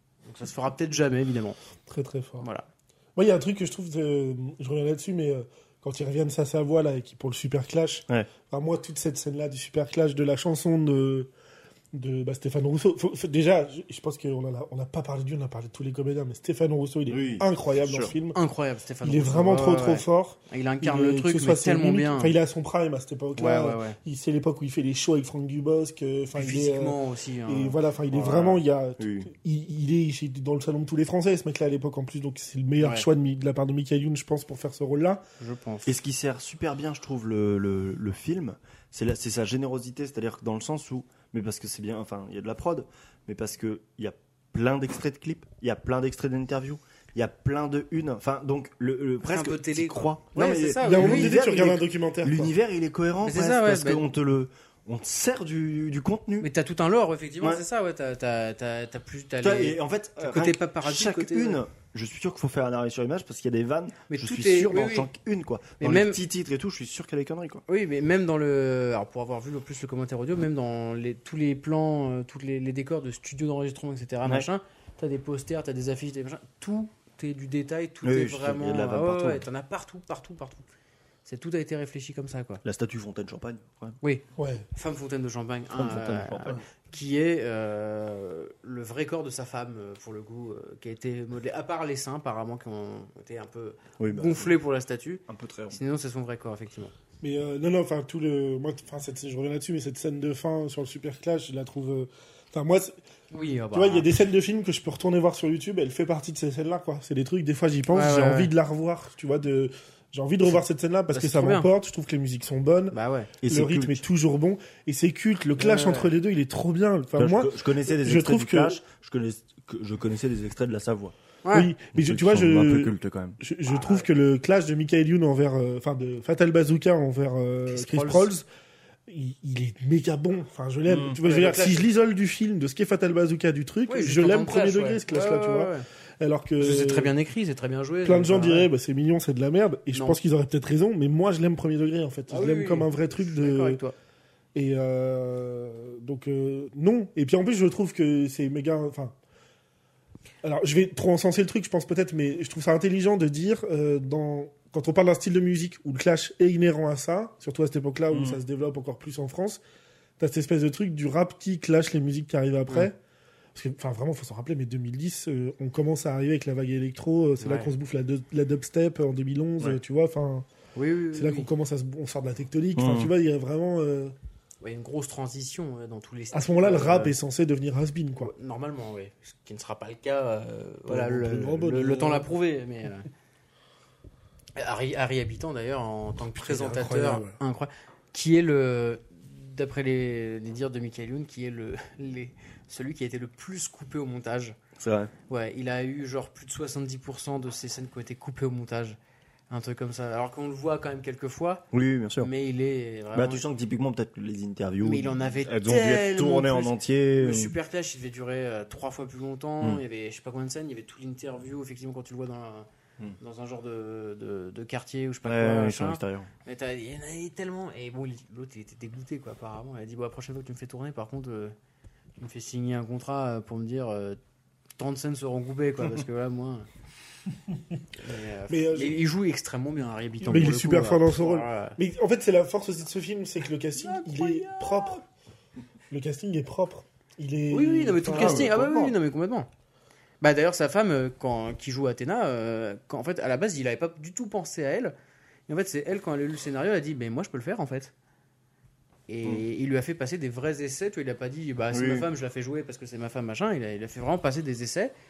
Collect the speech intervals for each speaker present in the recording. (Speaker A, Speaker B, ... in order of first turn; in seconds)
Speaker A: 0.2-1.6, 2.4-2.7, 18.3-22.3, 23.4-24.0, 26.4-28.6, 32.8-33.1, 35.4-35.9, 49.3-51.3, 53.2-54.0, 56.4-61.6, 64.1-65.1, 65.8-66.2, 67.7-80.7, 81.2-82.6, 84.0-96.9, 103.3-104.1, 107.9-108.5, 111.1-111.7, 112.9-113.3, 115.6-116.1, 121.5-121.7, 127.7-128.3, 131.2-131.8, 133.9-135.8, 136.6-138.7, 139.9-140.2, 142.3-143.9, 167.4-167.7, 170.8-171.5, 174.6-177.1, 178.2-183.1, 184.6-194.6, 195.3-199.0, 199.5-201.7, 202.2-203.4, 204.8-212.7, 213.2-221.6, 222.2-224.2, 224.8-226.7, 228.0-231.8, 233.8-235.0, 237.5-239.5, 240.2-244.9, 245.5-247.9, 249.1-254.9
Speaker B: 1.9-2.5, 3.2-11.3, 11.9-18.4, 19.0-35.2, 50.8-52.5, 84.4-84.7, 97.2-103.0, 103.7-118.8, 121.5-128.4, 129.1-137.1, 138.1-143.8, 144.6-149.1, 150.4-159.6, 160.2-163.0, 163.6-170.5, 171.1-174.1, 176.3-178.3, 180.9-182.3, 186.3-187.4, 228.5-229.0, 230.2-235.0, 235.9-238.9
Speaker C: 17.1-18.1, 29.0-29.3, 35.9-56.5, 59.4-67.6, 78.0-79.5, 82.6-84.0, 85.7-86.6, 94.0-94.5, 95.3-95.8, 113.4-114.0, 117.2-121.1, 122.0-124.0, 130.9-131.2, 158.1-158.4, 172.8-173.1, 194.8-195.1, 201.7-202.3, 203.1-207.6, 215.2-216.3, 238.1-238.5, 251.7-252.1